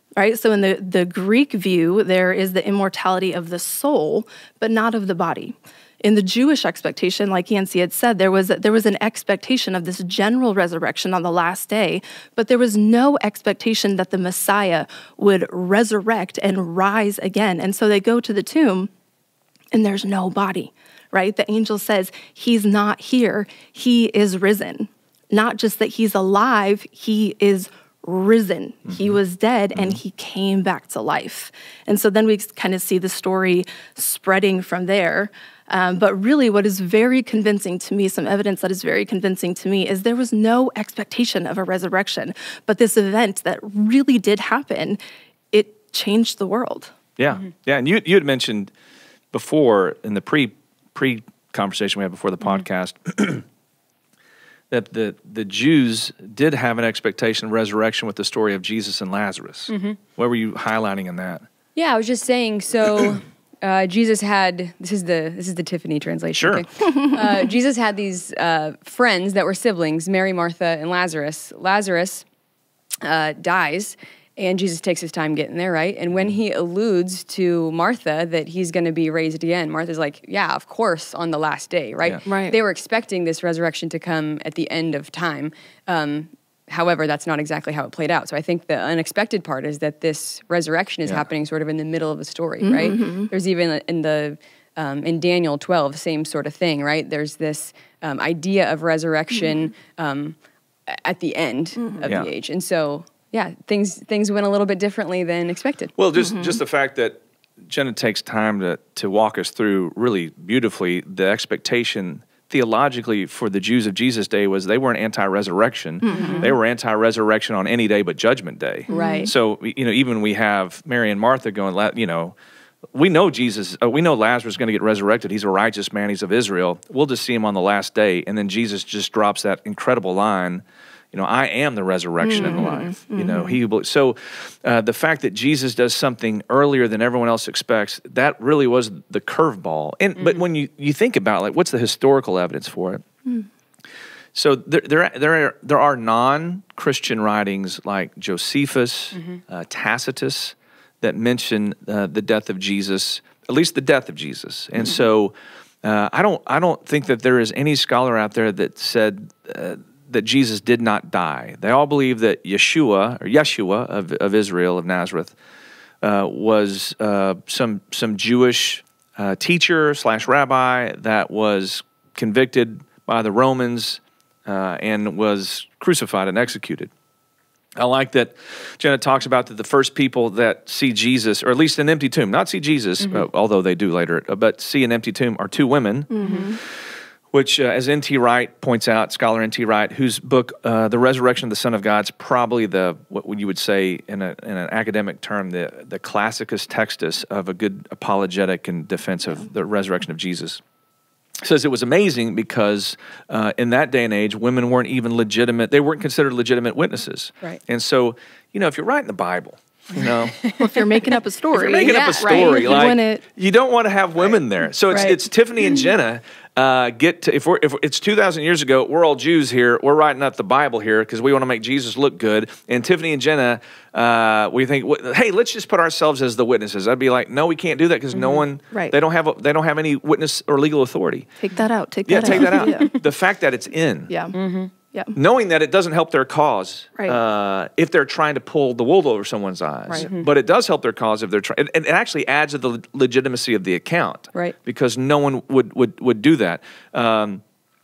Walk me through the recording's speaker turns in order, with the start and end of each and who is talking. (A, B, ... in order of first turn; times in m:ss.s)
0:00.2-0:18.9 A
0:19.7-0:45.0 A
0:28.9-0:29.2 B
0:45.5-0:46.9 A
0:47.2-0:48.7 B
0:49.3-0:53.4 B
0:54.7-1:01.4 B
0:59.7-1:00.0 C
1:01.8-1:12.2 C
1:06.3-1:06.6 B
1:13.0-1:40.4 C
1:22.2-1:22.6 A
1:32.6-1:33.3 A
1:40.9-1:45.9 C
1:41.8-1:42.1 A
1:46.0-2:02.3 B
1:46.2-1:46.6 A
1:56.0-1:56.5 A
1:56.1-1:56.5 C
1:58.9-1:59.3 C
1:58.9-1:59.3 A
2:02.9-2:23.0 B
2:12.2-2:13.6 A
2:24.3-2:45.3 B
2:29.1-2:29.4 C
2:46.0-2:56.9 B
2:57.8-3:06.7 B
3:06.1-3:06.6 A
3:06.2-3:06.5 C
3:07.3-3:20.6 B
3:21.4-3:30.4 B
3:30.4-3:30.7 C
3:30.6-3:33.2 A
3:31.5-3:51.3 B
3:31.8-3:32.8 C
3:34.9-3:35.2 C
3:48.7-3:49.0 A
3:51.4-3:52.9 A
3:52.1-3:54.1 B
3:52.6-3:52.9 C
3:54.1-3:54.3 A
3:54.3-3:54.7 C
3:55.1-4:07.4 B
4:00.0-4:00.3 C